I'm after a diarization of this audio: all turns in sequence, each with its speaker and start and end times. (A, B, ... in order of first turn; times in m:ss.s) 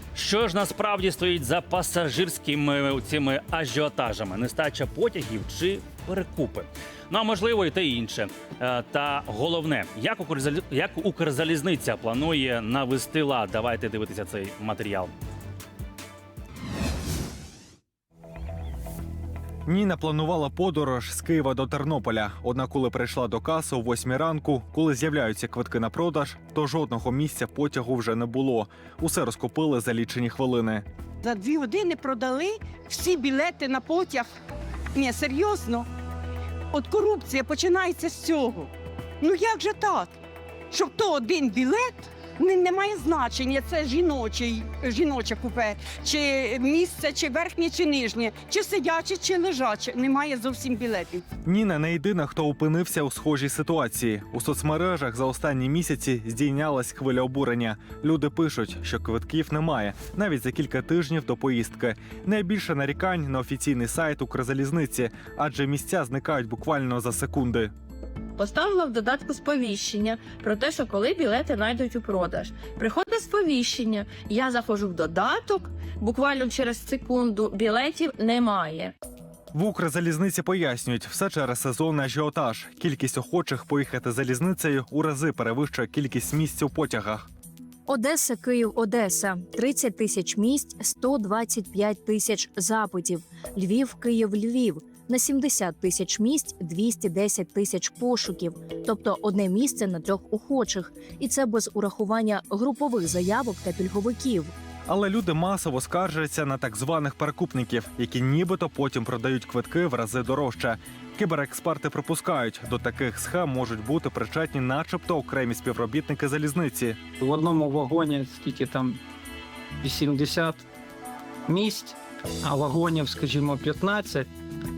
0:00.1-0:15.1 A
0:19.7-0:30.8 B
0:31.2-0:34.3 C
0:35.0-0:35.8 C
0:36.7-0:38.7 C
0:39.2-0:40.1 C
0:40.7-0:51.2 C
0:51.4-1:07.7 B
1:08.4-1:18.9 D
1:19.5-1:27.3 B
1:27.9-1:44.5 E
1:44.9-1:57.0 B
1:57.2-1:59.0 F
1:59.8-2:00.6 F
2:01.5-2:04.3 F